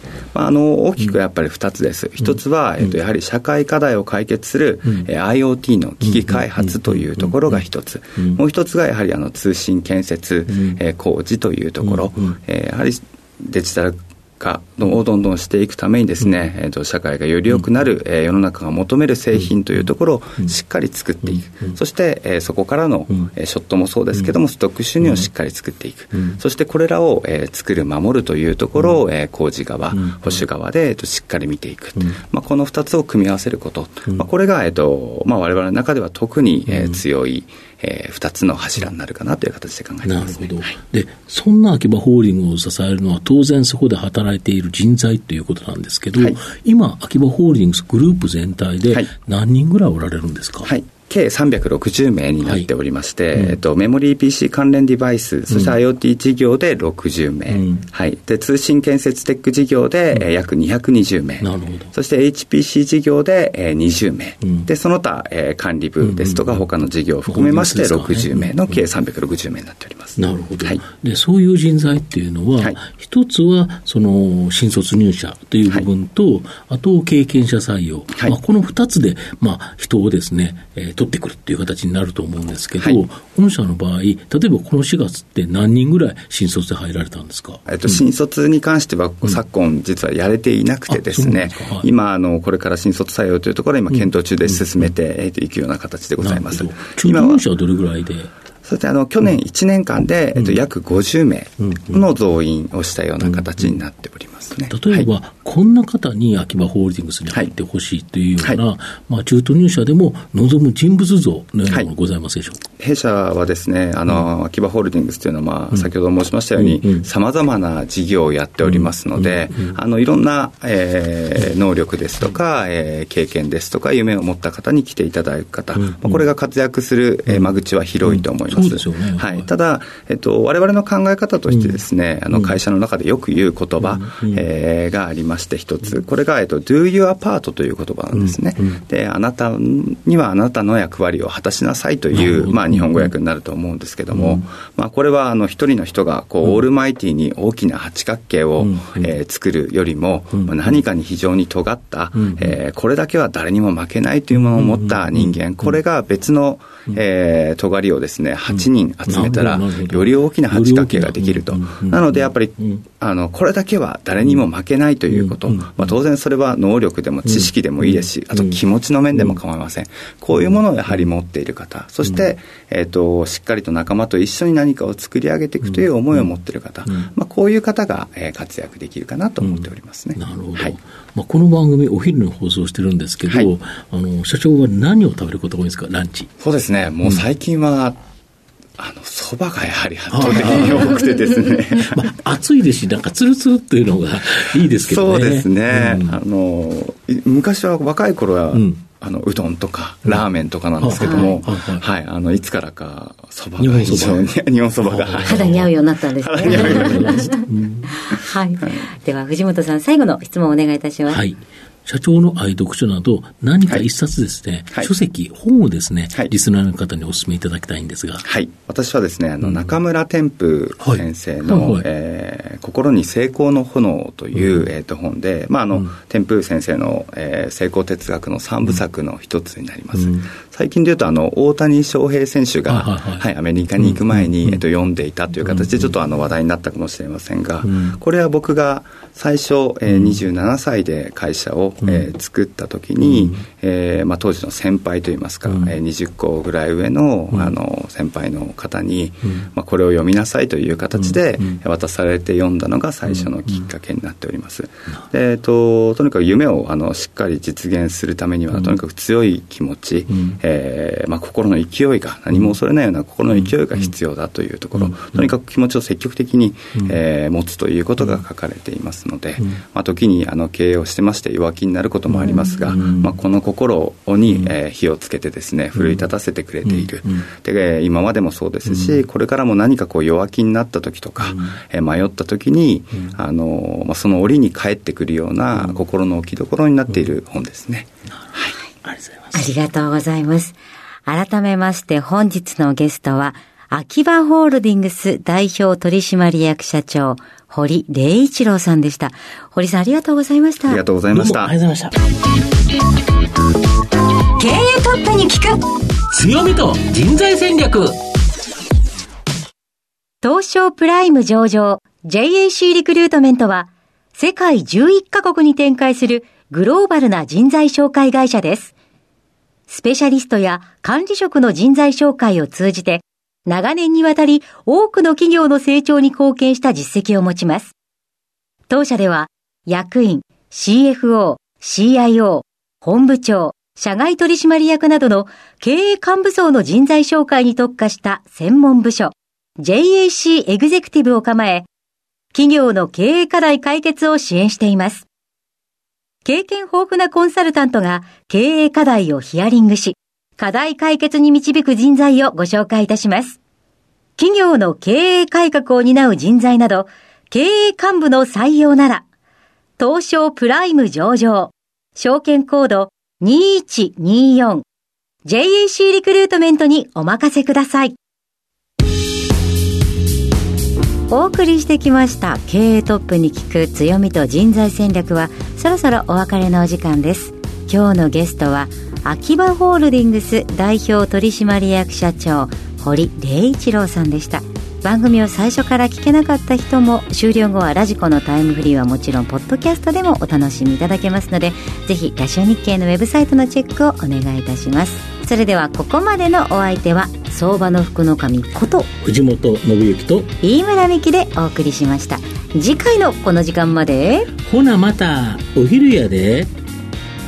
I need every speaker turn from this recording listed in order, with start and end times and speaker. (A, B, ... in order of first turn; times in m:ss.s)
0:00.3-0:40.8 A
0:06.0-0:07.6 B
0:10.5-0:10.8 B
0:11.8-0:12.3 B
0:25.0-0:25.3 B
0:26.1-0:26.4 B
0:29.9-0:30.4 B
0:36.7-0:37.0 B
0:40.0-0:50.7 B
0:50.7-1:10.8 A
0:57.5-0:57.8 B
1:01.4-1:01.9 B
1:06.0-1:06.6 B
1:07.3-1:08.5 B
1:10.2-1:28.0 B
1:27.7-1:37.4 A
1:30.9-1:31.9 B
1:33.9-1:34.9 B
1:36.2-1:38.3 B
1:38.6-1:45.1 A
1:41.6-1:42.0 B
1:43.2-1:43.8 B
1:44.7-1:52.6 B
1:52.8-3:00.8 A
1:56.6-1:57.1 B
1:58.6-1:59.8 B
2:05.8-2:06.2 B
2:08.0-2:09.5 B
2:11.5-2:12.5 B
2:13.8-2:14.5 B
2:18.1-2:18.8 B
2:22.1-2:23.1 B
2:24.1-2:24.4 B
2:28.6-2:29.2 B
2:30.3-2:30.8 B
2:32.2-2:32.6 B
2:34.3-2:35.8 B
2:38.5-2:42.8 B
2:45.1-2:46.0 B
2:47.2-2:48.6 B
2:49.1-2:49.4 B
2:50.3-2:51.1 B
2:55.6-2:56.3 B
2:59.4-3:06.3 B
3:06.4-3:08.0 A
3:08.8-3:12.1 A
3:10.1-3:11.1 B
3:11.8-3:16.2 B
3:14.8-3:25.7 A
3:18.5-3:18.8 B
3:20.8-3:21.9 B
3:21.0-3:21.4 C
3:23.6-3:25.7 B
3:25.2-3:31.2 C
3:26.2-3:27.3 A
3:26.4-3:28.0 B
3:31.1-3:38.2 B
3:38.2-4:48.6 A
3:39.4-3:39.7 B
3:40.8-3:41.9 B
3:44.4-3:44.7 B
3:50.0-3:50.3 B
3:52.7-3:54.6 B
3:55.4-3:55.9 B
3:57.6-3:58.0 B
3:59.9-4:00.2 B
4:01.8-4:02.1 B
4:03.0-4:03.4 B
4:05.5-4:05.7 B
4:11.0-4:11.6 B
4:18.5-4:18.8 B
4:20.1-4:20.4 B
4:23.3-4:23.9 B
4:24.8-4:25.3 B
4:32.1-4:33.1 B
4:35.8-4:36.1 B
4:36.6-4:37.2 B
4:38.7-4:39.0 B
4:41.2-4:41.6 B
4:48.8-4:49.4 B
4:49.3-4:50.6 C
4:51.1-5:00.8 C
5:00.7-5:01.5 A
5:01.1-5:02.0 B
5:04.4-5:05.6 C
5:06.1-5:08.0 B
5:10.2-5:18.7 C
5:19.7-5:27.8 C
5:28.7-5:41.7 C
5:42.3-5:45.1 C
5:46.2-5:53.4 C
5:54.2-5:59.0 C
5:59.8-6:04.6 C
6:05.2-6:08.0 C
6:11.1-6:38.9 C
6:39.0-6:40.3 B
6:40.4-6:44.3 C
6:44.4-6:46.5 B